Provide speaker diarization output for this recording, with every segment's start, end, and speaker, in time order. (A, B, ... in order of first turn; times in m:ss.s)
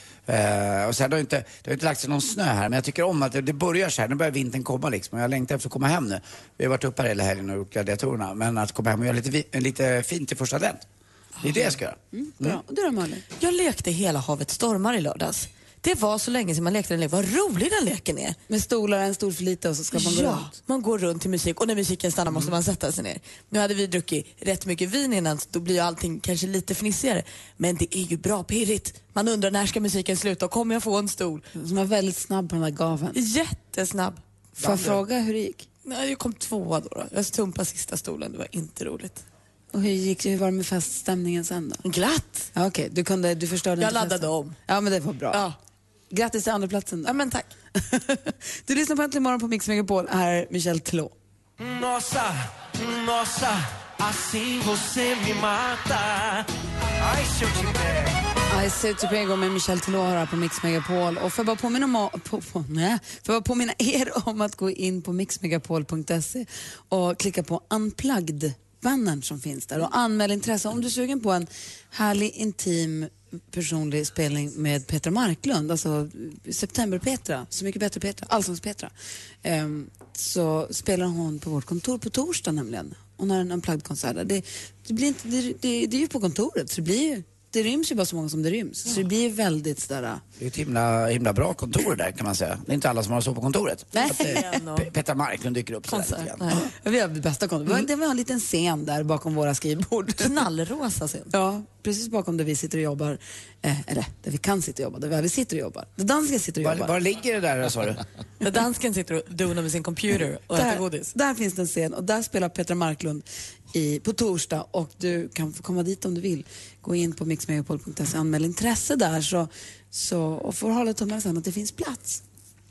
0:00.3-0:10.8 A
0:11.4-0:12.6 A
0:12.1-0:13.2 B
0:13.4-0:18.4 C
0:18.5-0:20.5 B
0:19.9-0:31.5 C
0:31.6-0:33.2 B
0:33.1-0:34.2 C
0:34.6-0:35.0 A
0:34.6-0:35.7 B
0:35.8-0:39.2 C
0:39.7-0:41.8 B
0:41.8-0:42.5 C
0:42.5-0:45.4 B
0:43.8-0:44.6 C
0:46.1-0:47.1 B
0:47.0-0:47.5 C
0:47.8-0:51.1 B
0:51.6-0:56.4 D
0:57.1-0:58.1 D
0:58.5-1:18.9 B
1:19.4-1:30.2 B
1:30.4-1:36.6 A
1:34.0-1:34.4 B
1:34.0-1:34.9 C
1:35.9-1:36.6 C
1:36.5-1:40.3 B
1:40.2-1:41.3 C
1:41.3-1:46.9 B
1:46.6-1:48.0 A
1:48.4-1:51.1 C
1:50.5-2:02.2 B